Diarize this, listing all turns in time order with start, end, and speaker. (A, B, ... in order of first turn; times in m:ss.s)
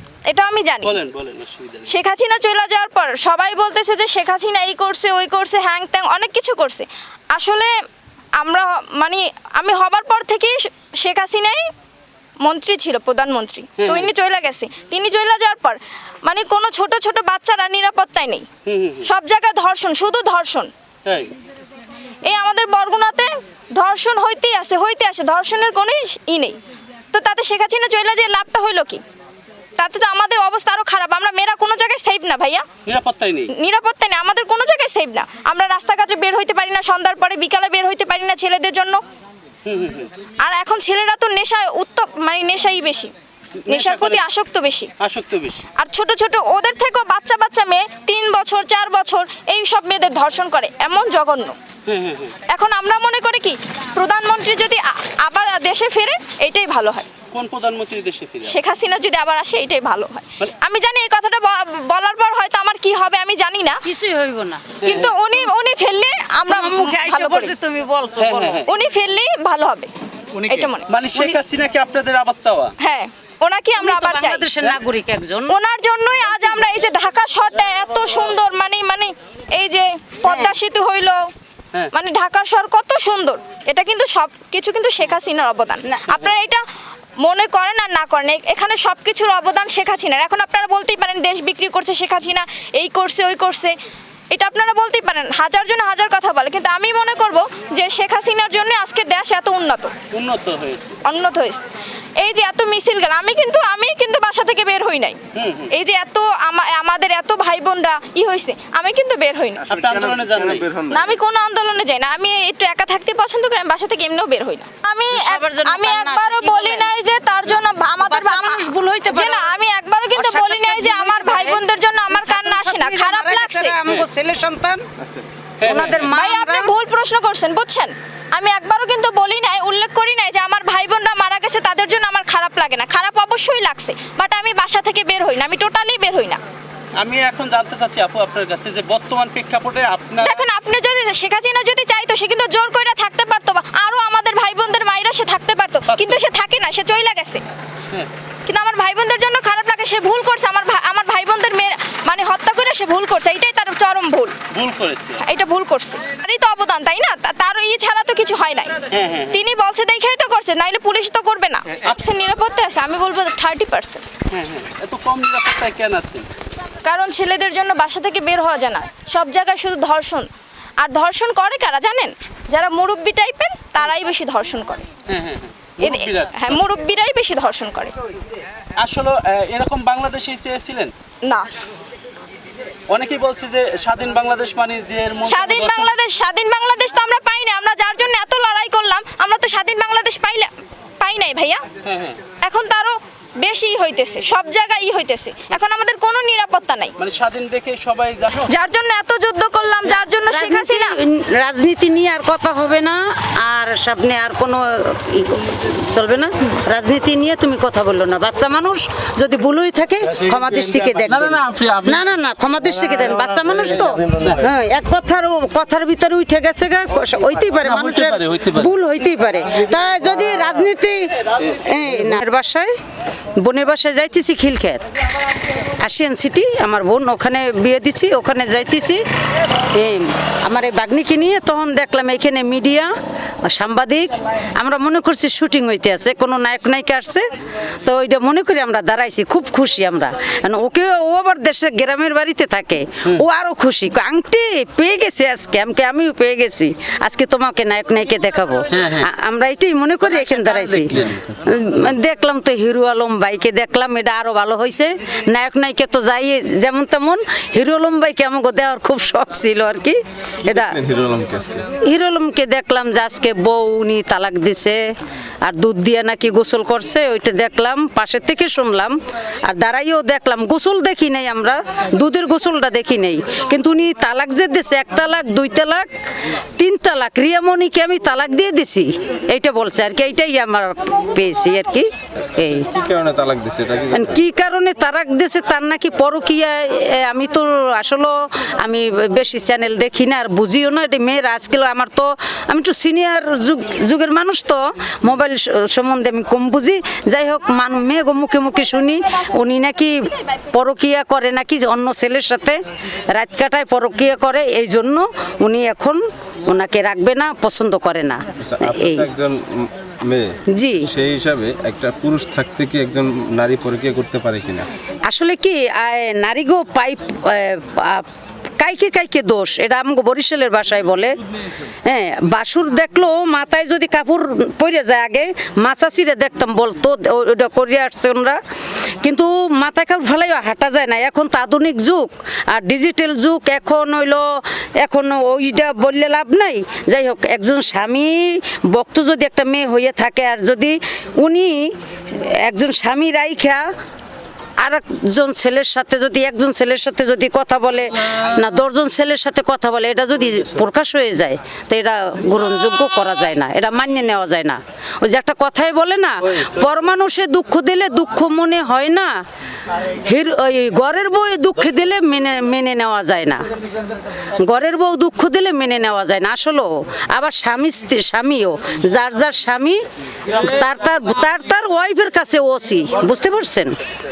0:00.3-0:01.0 A
0:00.8-0:01.9 B
0:01.8-0:07.7 A
0:08.4-0:11.7 A
0:12.4-0:18.5 A
0:13.8-0:14.1 B
0:18.6-0:19.1 B
0:19.0-0:20.7 A
0:21.0-0:21.3 B
0:22.2-0:26.6 A
0:27.1-0:29.0 A
0:29.8-0:32.6 A
0:32.8-0:33.5 B
0:33.5-0:39.0 A
0:39.6-0:40.1 B
0:40.4-0:43.1 A
0:43.6-0:44.2 B
0:43.7-0:44.9 A
0:45.0-0:45.6 B
0:45.7-0:51.6 A
0:51.8-0:52.4 B
0:52.5-0:57.1 A
0:57.3-0:58.6 B
0:58.4-1:03.8 A
1:03.8-1:04.7 C
1:04.8-1:05.2 B
1:04.8-1:07.5 A
1:06.4-1:08.7 C
1:08.2-1:08.7 B
1:08.6-1:09.9 A
1:10.3-1:12.7 B
1:10.5-1:10.9 A
1:12.8-1:14.5 A
1:13.8-1:15.5 C
1:15.5-1:21.2 A
1:20.2-1:20.5 C
1:21.9-1:26.6 A
1:25.8-1:26.1 C
1:27.2-1:33.8 A
1:34.3-1:39.9 A
1:40.1-1:41.0 B
1:41.0-1:41.6 A
1:42.2-1:45.2 A
1:45.3-1:45.7 B
1:45.7-1:49.6 A
1:49.7-1:50.8 B
1:50.9-2:03.8 A
1:55.1-1:56.9 C
1:58.1-1:59.6 C
2:00.1-2:04.8 C
2:05.6-2:06.1 B
2:05.6-2:06.7 C
2:05.9-2:16.4 A
2:17.0-2:20.4 B
2:20.2-2:27.4 A
2:25.9-2:26.2 B
2:28.4-2:34.4 A
2:34.5-2:35.2 B
2:35.2-2:44.0 A
2:38.9-2:39.4 B
2:44.3-2:46.3 B
2:46.8-2:54.9 A
2:55.1-2:56.6 B
2:55.8-2:57.9 A
2:58.8-3:00.9 B
3:02.9-3:05.9 B
3:05.2-3:11.6 A
3:11.8-3:12.2 B
3:12.4-3:16.9 A
3:17.0-3:18.5 B
3:18.5-3:21.0 A
3:20.3-3:42.7 C
3:30.3-3:32.0 B
3:34.1-3:34.5 B
3:37.6-3:38.7 B
3:43.4-3:44.8 C
3:45.6-3:49.0 C
3:49.7-3:57.3 C
3:57.8-4:20.7 C
4:08.7-4:09.1 B
4:10.2-4:11.2 B
4:20.4-4:21.7 D
4:21.8-4:24.8 C
4:25.4-4:42.7 C
4:42.5-4:44.2 D
4:43.9-5:02.6 C
5:03.1-5:09.1 C
5:08.4-5:14.7 D
5:10.5-5:10.8 C
5:15.1-5:18.0 C
5:18.6-5:21.2 C
5:21.8-5:28.4 C
5:29.0-5:43.7 C
5:44.6-5:59.2 C
6:00.0-6:03.4 C
6:04.4-6:13.8 C